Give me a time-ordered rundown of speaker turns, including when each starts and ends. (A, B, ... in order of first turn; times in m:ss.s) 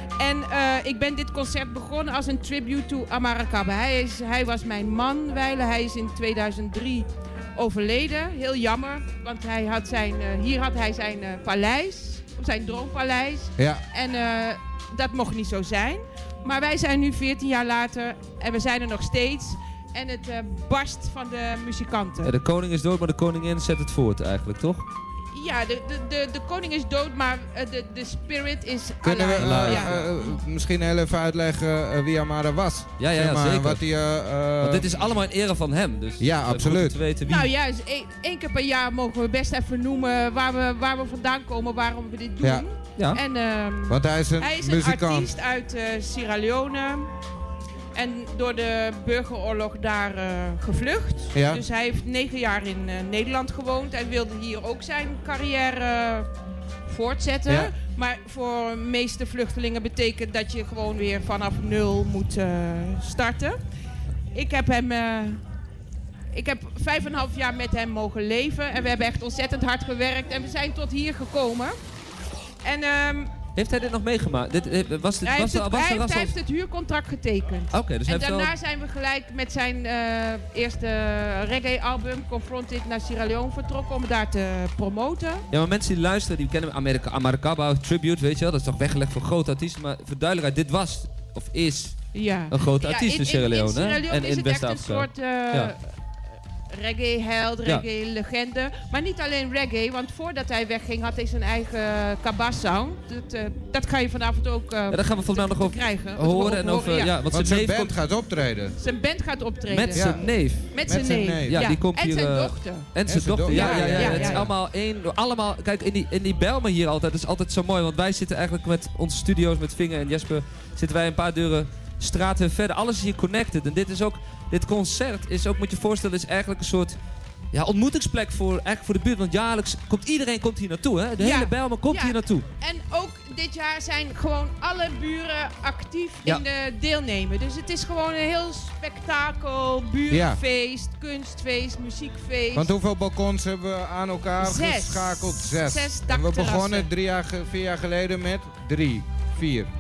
0:00.2-0:22.3 A
0:13.6-0:13.8 B
0:22.2-0:24.9 C
0:25.3-0:30.3 A
0:29.0-0:35.0 B
0:29.4-0:30.1 C
0:33.0-0:33.8 C
0:34.6-0:37.5 C
0:36.2-0:37.0 B
0:37.2-0:47.1 A
0:43.9-0:45.3 B
0:47.9-0:56.3 A
0:51.3-0:51.6 B
0:56.9-1:03.6 A
0:57.5-0:57.7 B
1:04.3-1:05.4 A
1:06.3-1:11.7 A
1:12.6-1:13.4 A
1:13.6-1:16.3 C
1:15.2-1:25.4 A
1:17.7-1:18.5 C
1:25.5-1:35.7 C
1:32.1-1:36.0 A
1:36.7-1:47.2 A
1:44.9-1:47.9 C
1:47.3-1:48.8 B
1:48.8-1:50.2 A
1:49.7-1:50.7 C
1:49.9-1:50.3 B
1:50.7-1:52.9 A
1:50.9-1:51.6 B
1:51.4-2:07.0 C
1:53.1-1:54.5 B
1:53.5-1:54.5 A
2:07.5-2:12.4 C
2:11.2-2:22.7 A
2:20.1-2:20.4 B
2:22.5-2:29.7 B
2:24.4-2:26.9 A